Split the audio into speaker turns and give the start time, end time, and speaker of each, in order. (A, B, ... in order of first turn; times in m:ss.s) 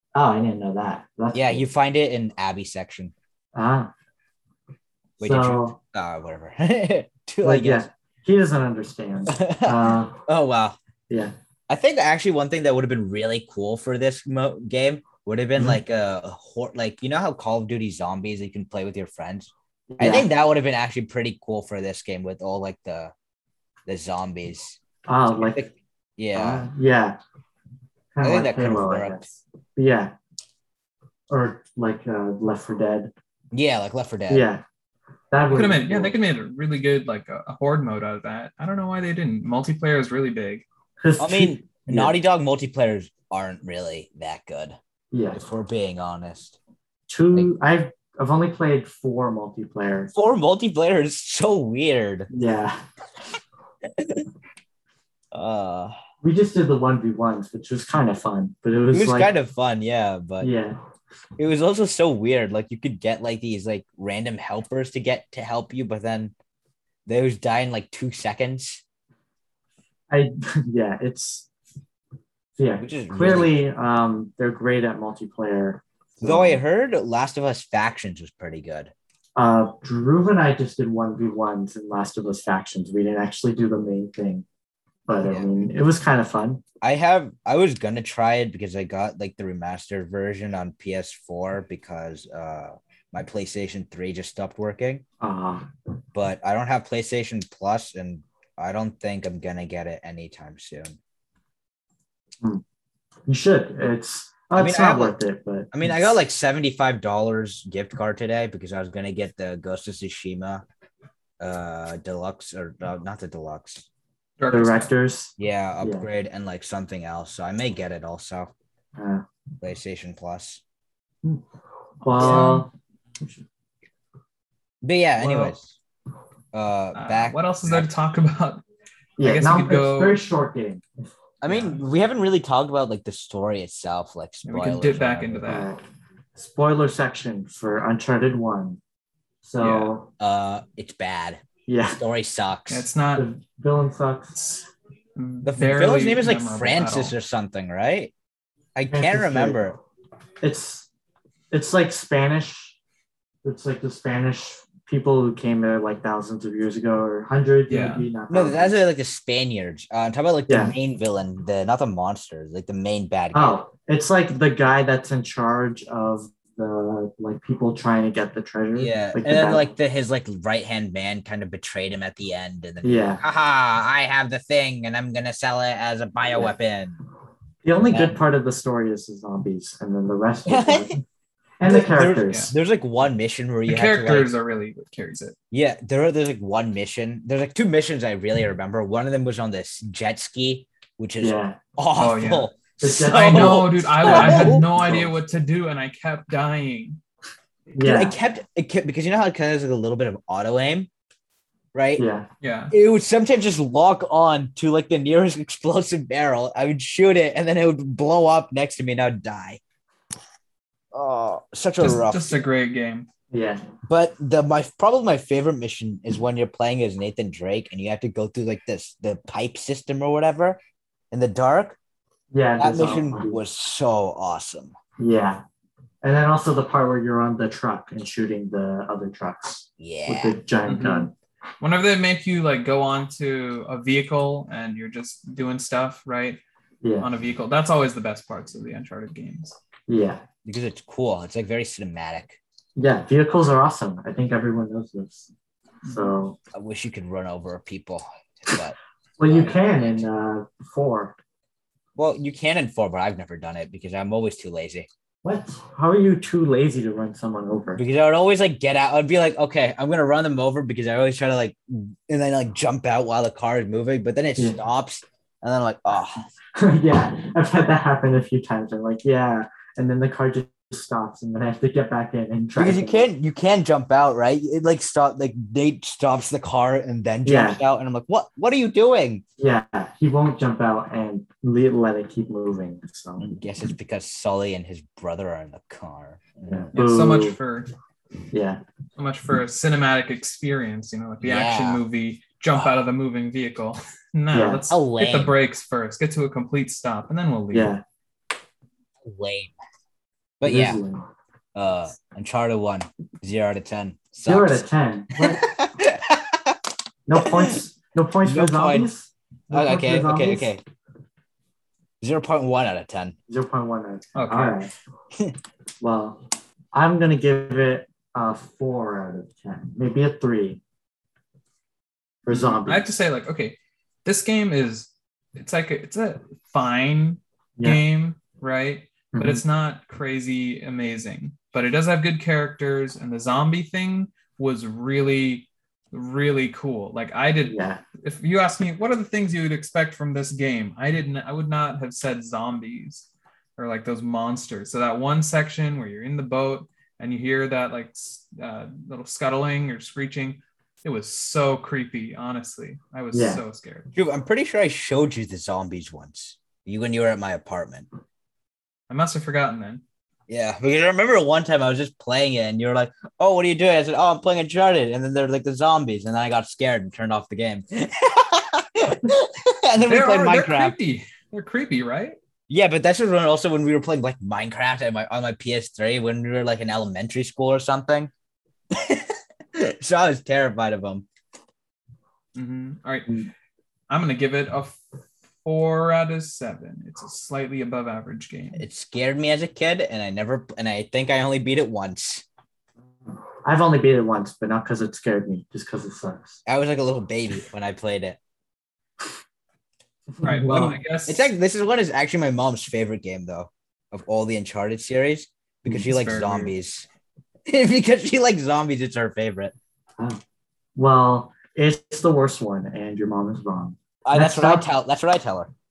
0:00.1-0:01.6 A
0:01.3-0:03.1 B
0:03.5-0:03.9 A
0:05.2-0:05.8 A
0:05.2-0:07.9 B
0:07.4-0:10.2 A
0:09.3-0:10.8 B
0:11.7-0:23.1 B
0:19.9-0:20.3 A
0:23.9-0:24.8 B
0:25.1-0:25.6 A
0:25.4-0:26.6 B
0:26.3-0:27.2 A
0:28.1-0:30.1 A
0:28.2-0:29.2 B
0:31.3-0:33.1 A
0:33.5-0:34.4 B
0:34.3-0:34.6 A
0:35.3-0:36.2 A
0:35.5-0:40.6 C
0:41.0-0:42.1 A
0:41.2-0:44.8 B
0:45.1-0:45.4 A
0:45.3-0:46.6 B
0:47.1-0:50.1 A
0:50.1-0:52.3 B
0:52.3-0:52.8 A
0:54.0-0:54.2 B
0:55.3-0:55.9 B
0:56.2-0:59.3 A
0:58.9-1:00.5 B
1:00.4-1:00.8 A
1:01.4-1:06.3 B
1:07.0-1:08.8 B
1:10.1-1:11.5 A
1:12.6-1:16.6 A
1:12.8-1:13.5 B
1:16.2-1:18.9 B
1:19.4-1:24.4 A
1:25.1-1:26.6 A
1:25.2-1:25.5 B
1:26.8-1:35.0 B
1:35.2-1:35.7 A
1:36.1-1:41.0 B
1:43.3-1:46.1 A
1:44.6-1:45.2 B
1:45.7-1:50.6 B
1:51.4-1:53.8 B
1:54.4-1:54.9 C
1:54.5-1:56.0 A
1:55.4-1:58.5 B
1:59.0-1:59.2 A
1:59.6-2:00.6 B
2:02.0-2:03.4 A
2:02.2-2:02.6 B
2:02.2-2:02.6 C
2:04.8-2:05.6 B
2:05.2-2:05.6 A
2:06.5-2:07.9 B
2:06.9-2:08.6 C
2:09.2-2:11.7 A
2:09.2-2:10.2 C
2:11.4-2:15.6 B
2:14.4-2:15.7 C
2:15.4-2:15.8 A
2:16.4-2:18.8 A
2:19.4-2:20.1 A
2:19.6-2:19.9 C
2:20.2-2:22.9 B
2:21.7-2:22.0 A
2:22.7-2:23.2 C
2:23.2-2:24.7 A
2:25.2-2:27.1 C
2:25.4-2:28.1 B
2:28.7-2:29.8 B
2:28.9-2:29.6 A
2:30.4-2:30.9 A
2:31.5-2:32.8 A
2:33.4-2:38.8 A
2:37.7-2:38.1 C
2:38.3-2:43.6 B
2:40.5-2:40.7 A
2:43.3-2:49.7 A
2:48.8-2:57.0 B
2:52.8-2:53.2 A
2:57.6-3:01.0 A
2:57.9-2:58.2 B
3:00.5-3:00.9 B
3:01.6-3:02.5 A
3:01.6-3:04.3 B
3:02.3-3:02.5 C
3:03.6-3:05.4 C
3:05.5-3:14.7 B
3:11.2-3:11.6 A
3:12.0-3:12.5 C
3:12.8-3:15.1 A
3:13.1-3:17.0 C
3:17.7-3:18.1 A
3:17.8-3:20.9 B
3:21.7-3:22.0 B
3:22.0-3:22.3 A
3:22.4-3:22.7 C
3:22.7-3:29.6 B
3:30.9-3:32.4 B
3:31.8-3:33.1 C
3:33.3-3:33.6 A
3:33.9-3:40.6 B
3:41.1-3:41.8 B
3:42.3-3:43.4 A
3:42.6-3:44.7 B
3:45.0-3:45.4 A
3:46.0-3:51.1 A
3:49.8-3:50.4 B
3:50.6-3:56.4 C
3:56.8-3:57.1 A
3:57.0-3:59.6 C
3:59.9-4:00.2 A
4:00.4-4:02.4 B
4:02.8-4:05.3 A
4:05.8-4:06.1 C
4:05.8-4:06.4 A
4:06.5-4:10.0 B
4:09.2-4:11.2 A
4:12.0-4:14.9 B
4:15.2-4:17.8 A
4:17.8-4:26.2 B
4:26.6-4:33.0 A
4:32.6-4:39.2 B
4:37.2-4:37.6 A
4:39.4-4:43.3 A
4:43.2-4:46.7 B
4:46.5-4:47.4 A
4:46.7-4:47.7 C
4:48.3-4:48.6 A
4:49.0-4:57.7 C
4:51.2-4:51.8 B
4:54.3-4:54.6 A
4:54.7-4:55.3 B
4:57.5-4:57.8 A
4:59.0-4:59.5 B
5:00.4-5:00.8 B
5:00.4-5:01.0 A
5:01.5-5:04.6 B
5:04.2-5:05.4 A
5:05.2-5:06.6 B
5:07.1-5:10.5 A
5:07.2-5:07.5 B
5:08.2-5:08.9 B
5:09.5-5:10.6 B
5:12.0-5:13.2 B
5:13.3-5:14.7 A
5:14.1-5:14.6 C
5:15.8-5:20.6 A
5:22.2-5:22.9 A
5:22.3-5:53.9 C
5:29.1-5:29.4 A
5:37.4-5:37.8 A
5:53.1-5:53.4 A
5:53.9-5:57.9 B
5:58.9-5:59.8 C
6:00.3-6:10.8 B
6:09.8-6:12.2 C
6:12.5-6:18.1 B
6:18.7-6:21.0 B
6:22.3-6:23.3 C
6:23.9-6:24.8 C
6:25.4-6:28.6 C
6:28.6-6:32.2 B
6:33.1-6:36.4 A
6:36.4-6:38.2 B
6:40.2-6:40.8 A
6:40.2-6:41.3 C
6:41.0-6:46.8 B
6:45.8-6:46.5 C
6:47.5-6:49.5 B
6:50.8-6:54.6 A
6:54.0-6:55.5 B